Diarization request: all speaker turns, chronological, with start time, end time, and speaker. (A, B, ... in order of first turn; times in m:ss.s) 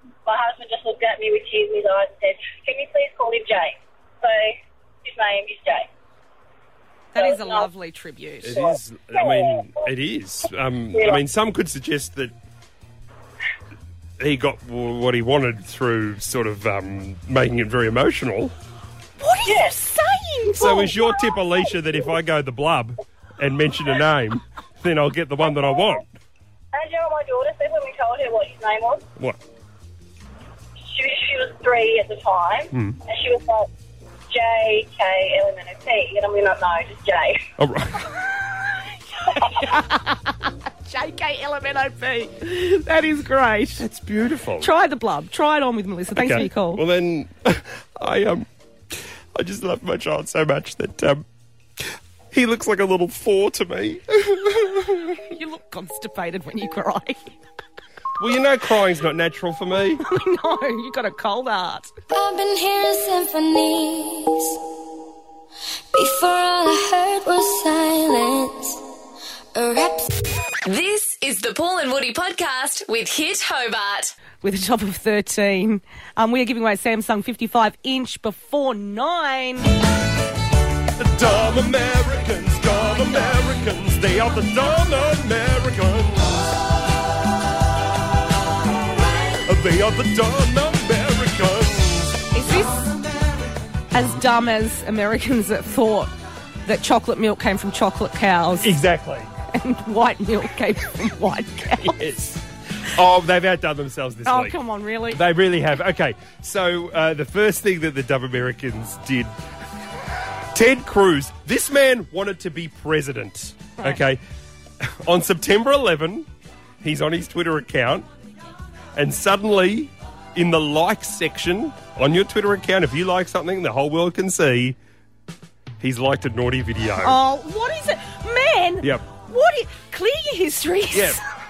0:00.3-0:05.9 A
0:07.1-0:08.6 B
0:07.2-0:07.7 A
0:08.4-0:12.3 C
0:08.5-0:09.8 A
0:10.9-0:11.2 A
0:14.2-0:18.5 C
0:19.2-0:21.1 B
0:19.4-0:19.8 A
0:20.6-0:26.1 C
0:25.5-0:25.9 A
0:26.7-0:29.0 A
0:30.9-0:33.7 A
0:32.7-0:33.0 C
0:34.3-0:37.4 A
0:37.6-0:38.2 C
0:39.3-0:43.8 B
0:43.8-0:44.7 C
0:44.6-0:46.8 B
0:46.1-0:51.3 C
0:51.8-0:55.2 C
0:55.3-0:57.4 B
0:58.2-1:00.0 C
1:00.0-1:01.9 B
1:02.1-1:04.6 D
1:05.9-1:08.8 D
1:09.5-1:10.1 D
1:10.6-1:14.1 E
1:14.4-1:19.7 B
1:21.0-1:26.6 C
1:29.4-1:32.3 C
1:32.3-1:32.9 B
1:33.9-1:36.1 B
1:36.7-1:38.8 B
1:38.6-1:39.3 C
1:39.5-1:42.0 B
1:41.8-1:44.6 C
1:44.2-1:45.2 B
1:45.1-1:49.3 C
1:50.5-1:54.2 C
1:54.8-1:56.3 C
1:56.8-1:58.1 C
1:59.0-2:04.8 C
2:05.8-2:07.2 C
2:07.0-2:11.2 B
2:10.9-2:11.2 C